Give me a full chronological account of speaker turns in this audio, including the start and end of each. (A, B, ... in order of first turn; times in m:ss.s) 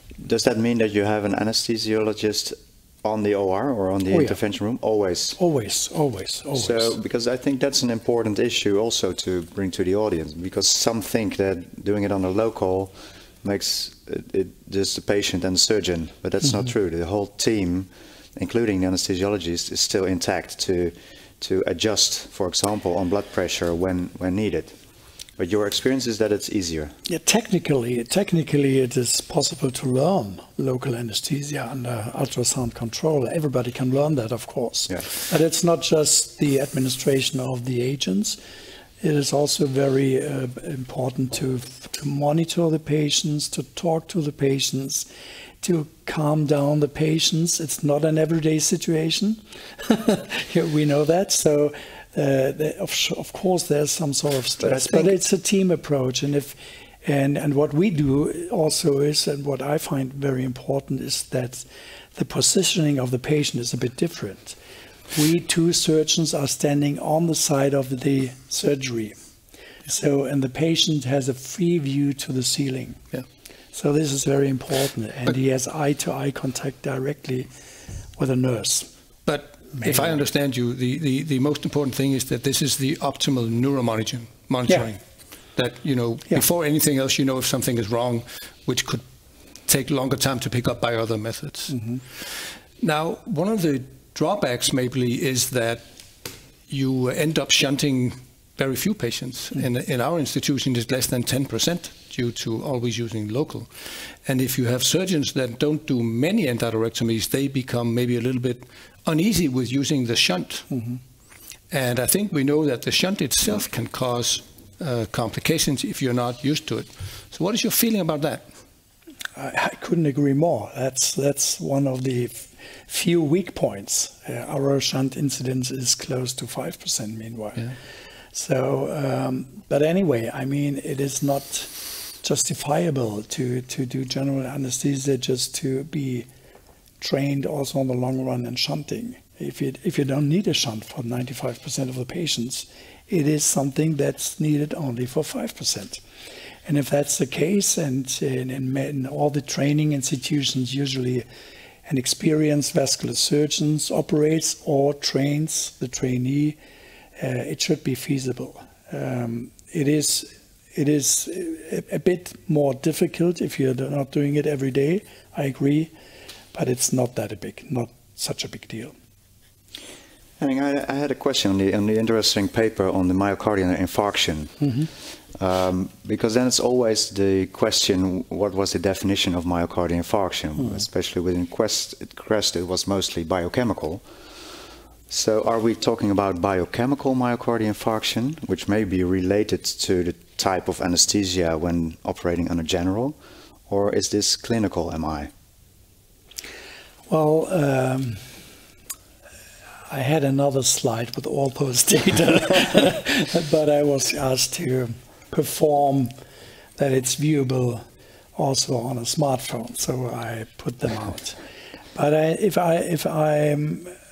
0:00.2-0:05.4 A
0:04.1-0:04.4 B
0:05.4-0:06.9 B
0:06.6-0:24.8 A
0:25.4-0:26.9 A
0:27.1-0:38.4 B
0:39.0-0:45.1 B
0:45.6-1:04.6 B
0:54.6-0:55.2 A
1:05.1-1:09.2 B
1:09.9-1:13.0 B
1:13.7-1:17.5 B
1:18.2-1:18.9 B
1:19.3-1:25.0 C
1:19.7-1:20.1 B
1:25.5-1:29.0 C
1:29.7-1:35.8 C
1:31.7-1:32.0 B
1:36.7-1:43.7 C
1:44.2-1:50.7 C
1:50.7-1:51.0 B
1:51.7-1:58.5 C
1:59.4-2:07.8 B
2:08.3-2:16.3 B
2:17.0-2:26.0 B
2:26.7-2:31.2 B
2:31.9-2:36.6 B
2:37.2-2:45.9 B
2:46.5-2:48.9 B
2:50.4-2:54.7 A
2:55.4-3:04.0 A
3:05.1-3:13.2 A
3:13.7-3:15.3 A
3:17.1-3:18.4 B
3:19.9-3:26.1 B
3:26.8-3:27.8 B
3:28.4-3:31.4 B
3:32.0-3:34.0 B